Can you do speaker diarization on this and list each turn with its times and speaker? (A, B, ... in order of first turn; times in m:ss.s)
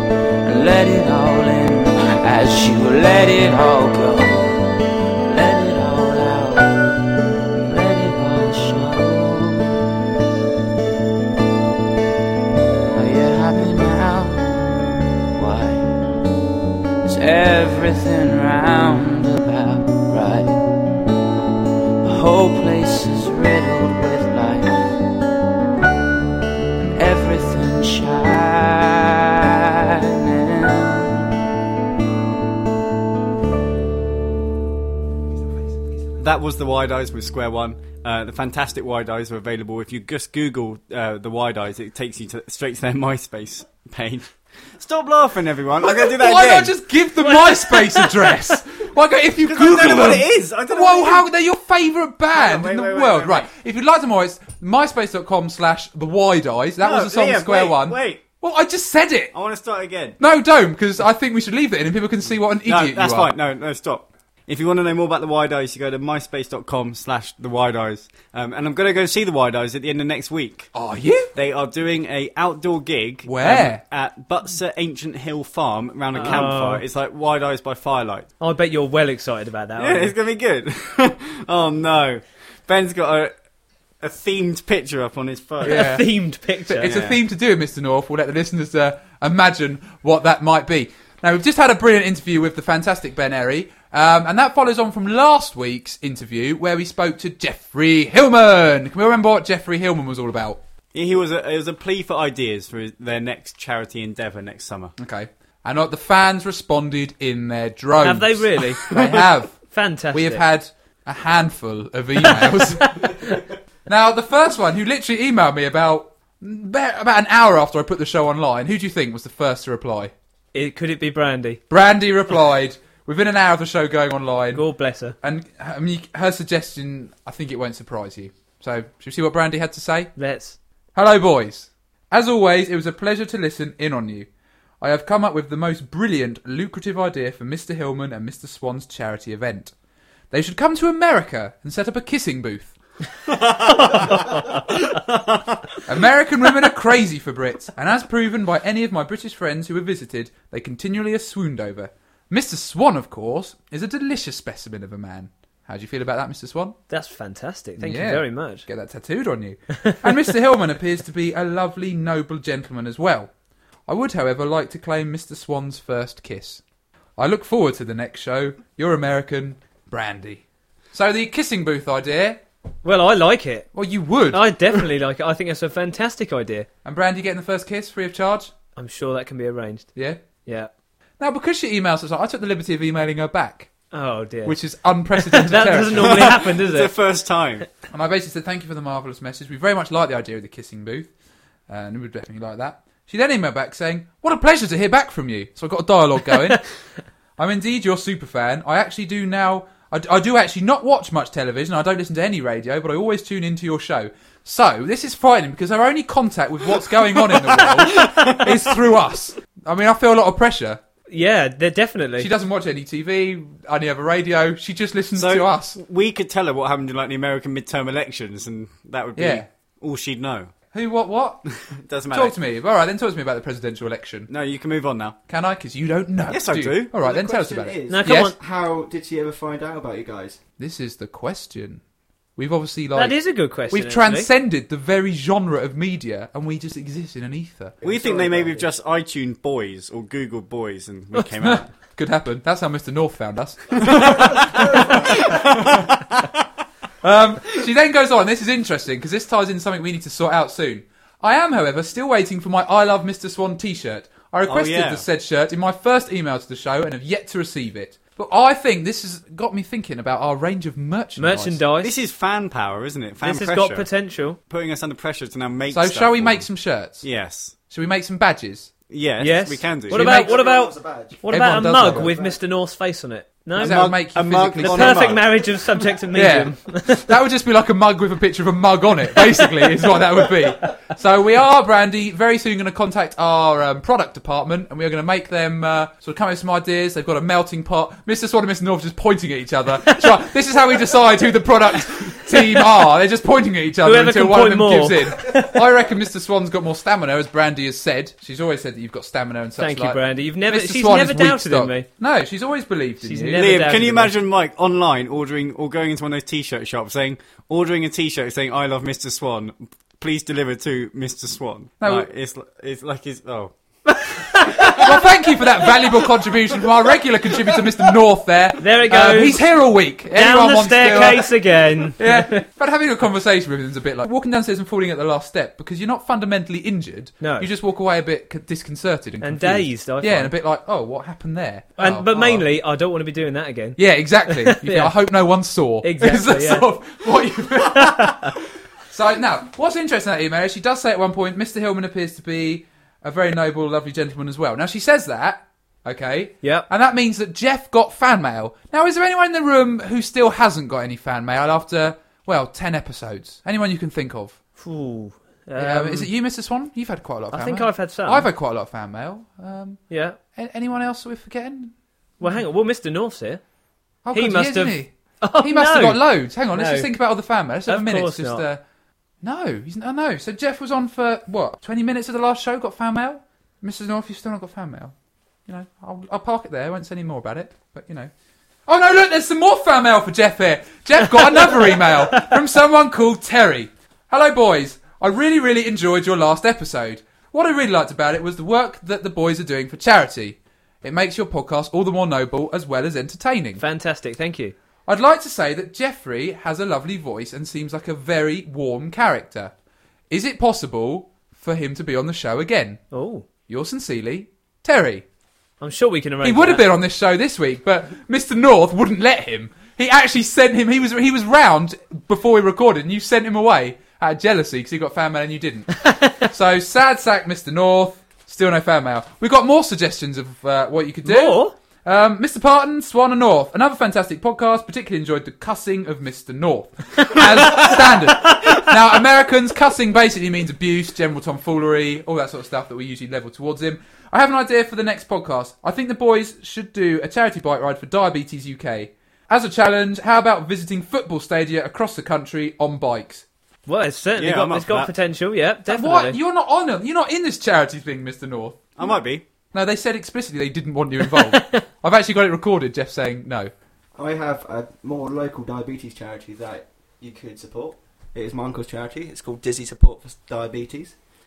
0:00.4-0:04.6 A
0:05.3-0:06.8 A
0:07.6-0:09.8 A
0:12.9-0:16.0 A
0:17.0-0:20.6 A
0:22.0-0:25.0 A
0:26.8-0:31.3 A
0:36.2-0:46.8 B
0:45.8-0:59.3 C
0:47.2-0:48.3 D
0:49.4-0:51.3 B
0:52.3-0:53.5 B
0:56.8-0:58.2 B
0:59.3-1:00.2 B
1:00.2-1:03.3 C
1:02.7-1:10.7 B
1:10.7-1:11.3 C
1:11.4-1:18.3 B
1:13.3-1:13.8 C
1:16.1-1:16.8 D
1:18.4-1:20.1 D
1:19.8-1:23.3 B
1:24.0-1:26.0 B
1:25.6-1:27.0 D
1:25.6-1:26.2 C
1:26.8-1:40.6 C
1:26.8-1:27.2 B
1:40.9-1:44.9 B
1:45.0-2:00.1 C
1:48.0-1:48.9 D
1:48.9-1:49.2 B
1:49.6-1:50.4 D
1:52.8-1:53.3 D
2:00.5-2:01.6 D
2:01.7-2:04.7 C
2:04.5-2:05.1 D
2:05.2-2:10.1 C
2:10.2-2:10.6 D
2:11.0-2:14.3 C
2:14.8-2:19.7 C
2:20.3-2:22.8 C
2:23.3-2:24.3 B
2:24.9-2:25.4 B
2:25.9-2:36.8 C
2:36.9-2:38.7 D
2:37.8-2:43.3 C
2:43.9-2:46.6 C
2:47.2-2:52.4 C
2:52.8-2:53.7 D
2:53.7-2:54.8 C
2:54.3-2:56.7 D
2:56.8-2:58.5 C
2:58.8-2:59.9 D
3:00.4-3:00.7 D
3:01.2-3:03.7 C
3:03.9-3:04.6 D
3:04.5-3:06.4 C
3:05.1-3:07.0 D
3:05.9-3:07.7 B
3:07.9-3:11.1 C
3:11.7-3:16.8 C
3:17.4-3:30.8 C
3:27.6-3:28.5 B
3:31.1-3:32.3 D
3:32.2-3:35.8 C
3:35.1-3:40.5 B
3:39.2-3:39.5 C
3:40.7-3:41.4 C
3:41.6-3:42.4 B
3:42.1-3:44.3 C
3:44.3-3:45.2 B
3:45.3-3:48.3 C
3:46.3-3:46.9 B
3:47.0-3:50.4 E
3:47.9-3:48.4 D
3:50.6-3:51.8 C
3:52.4-3:57.8 C
3:53.0-3:54.3 D
3:57.8-3:58.7 E
3:57.8-4:01.7 B
4:01.4-4:06.0 C
4:04.2-4:06.3 B
4:07.0-4:21.6 C
4:14.5-4:15.1 B
4:21.2-4:21.9 D
4:21.8-4:26.5 B
4:23.2-4:24.4 D
4:25.7-4:27.0 C
4:27.0-4:27.6 B
4:27.6-4:28.7 C
4:28.9-4:30.2 B
4:29.2-4:34.0 D
4:29.9-4:30.4 C
4:30.0-4:32.4 E
4:31.3-4:32.1 C
4:33.6-4:35.5 B
4:33.6-4:35.2 C
4:34.6-4:37.1 D
4:36.1-5:03.5 C
4:39.3-4:40.4 D
4:53.8-4:55.6 D
4:59.6-5:01.9 D
5:03.0-5:04.1 D
5:03.4-5:14.0 B
5:11.8-5:12.1 C
5:14.0-5:14.9 D
5:14.7-5:21.4 C
5:18.6-5:19.5 D
5:20.1-5:22.4 D
5:22.0-5:32.5 C
5:27.2-5:27.5 D
5:29.2-5:30.4 D
5:31.8-5:34.9 D
5:33.8-5:54.4 C
5:35.8-5:36.7 D
5:37.8-5:38.3 D
5:54.6-5:56.1 D
5:55.6-6:02.4 C
5:57.3-5:58.3 D
5:59.9-6:00.2 D
6:02.2-6:03.4 D
6:04.0-6:08.6 C
6:04.1-6:06.9 D
6:07.7-6:08.4 D
6:09.2-6:14.9 C
6:15.5-6:18.1 C
6:18.7-6:33.6 C
6:33.6-6:34.5 D
6:34.9-6:39.5 C
6:40.1-6:42.8 C
6:42.9-6:43.2 D
6:43.5-6:45.0 C
6:45.6-6:46.7 D
6:46.2-7:23.2 C
6:55.9-6:56.3 D
7:01.0-7:01.5 D
7:23.7-7:26.2 D
7:24.2-7:24.9 B
7:25.7-7:28.7 C
7:28.8-7:29.2 B
7:29.5-7:33.5 C
7:31.1-7:31.6 D
7:34.0-7:41.0 E